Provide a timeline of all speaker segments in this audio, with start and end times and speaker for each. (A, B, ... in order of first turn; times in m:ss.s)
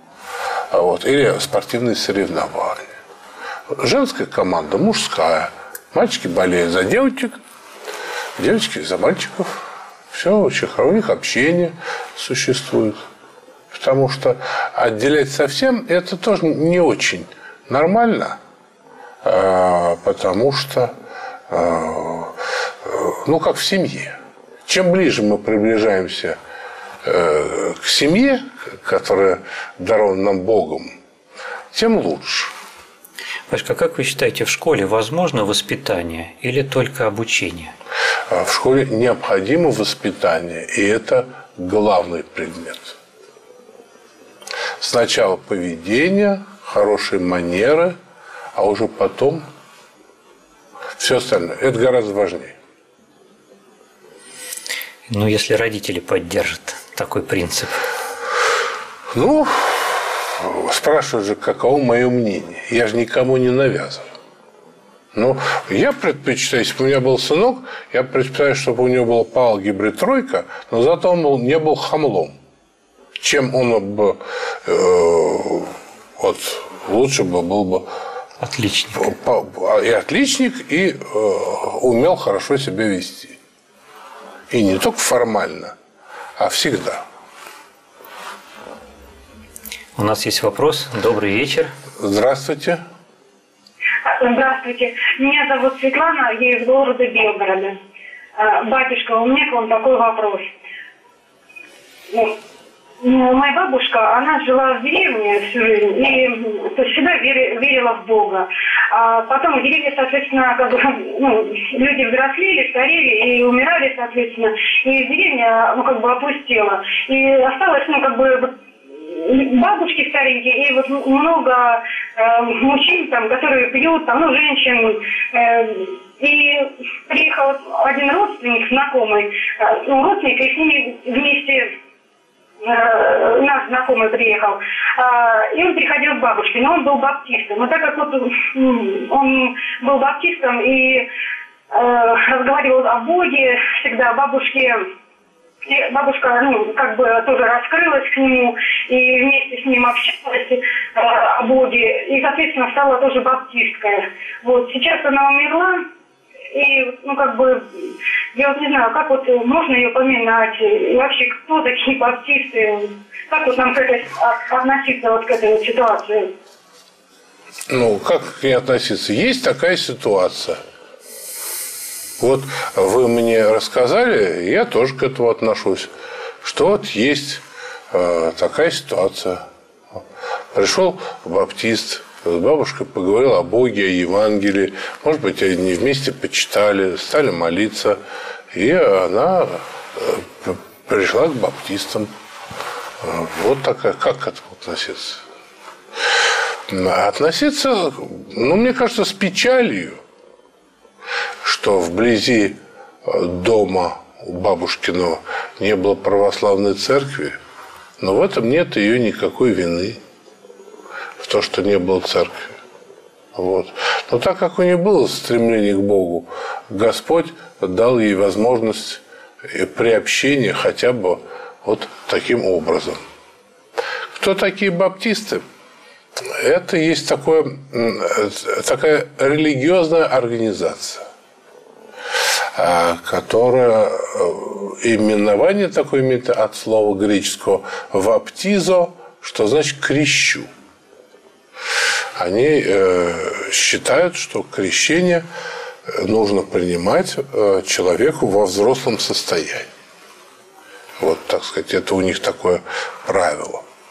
0:00.7-0:03.0 A
0:03.7-0:07.4 A
0:08.4-0:13.0 A
0:13.7-0:18.4 A
0:19.2-0:20.9 A
0:21.5-0:26.4 A
0:27.0-0:31.0 A
0:31.7-0:32.5 A
0:33.5-0:37.7 B
0:38.3-0:43.0 A
0:44.8-0:48.0 A
0:48.5-0:49.4 A
0:51.0-0:52.5 A
0:55.1-0:57.8 B
0:59.1-1:04.1 A
1:05.1-1:12.4 A
1:13.2-1:17.9 A
1:18.4-1:19.1 B
1:18.9-1:23.4 A
1:24.5-1:25.8 A
1:26.4-1:27.0 A
1:30.0-1:31.7 B
1:32.0-1:32.8 A
1:34.0-1:37.8 C
1:38.4-1:40.5 C
1:43.0-2:11.7 C
2:12.6-2:21.0 C
2:21.7-2:24.8 C
2:25.6-2:35.8 C
2:36.5-2:46.3 C
2:47.7-2:50.6 A
2:52.2-2:55.9 A
2:56.4-3:00.0 A
3:00.5-3:08.0 A
3:08.5-3:12.1 A
3:13.0-3:15.2 A
3:16.7-3:20.0 A
3:21.4-3:27.4 A
3:28.0-3:30.0 A
3:31.2-3:32.6 A
3:33.3-3:43.0 A
3:44.2-3:45.4 A
3:46.3-3:51.0 A
3:52.5-4:00.5 A
4:02.2-4:05.2 A
4:05.9-4:09.7 A
4:11.0-4:13.6 A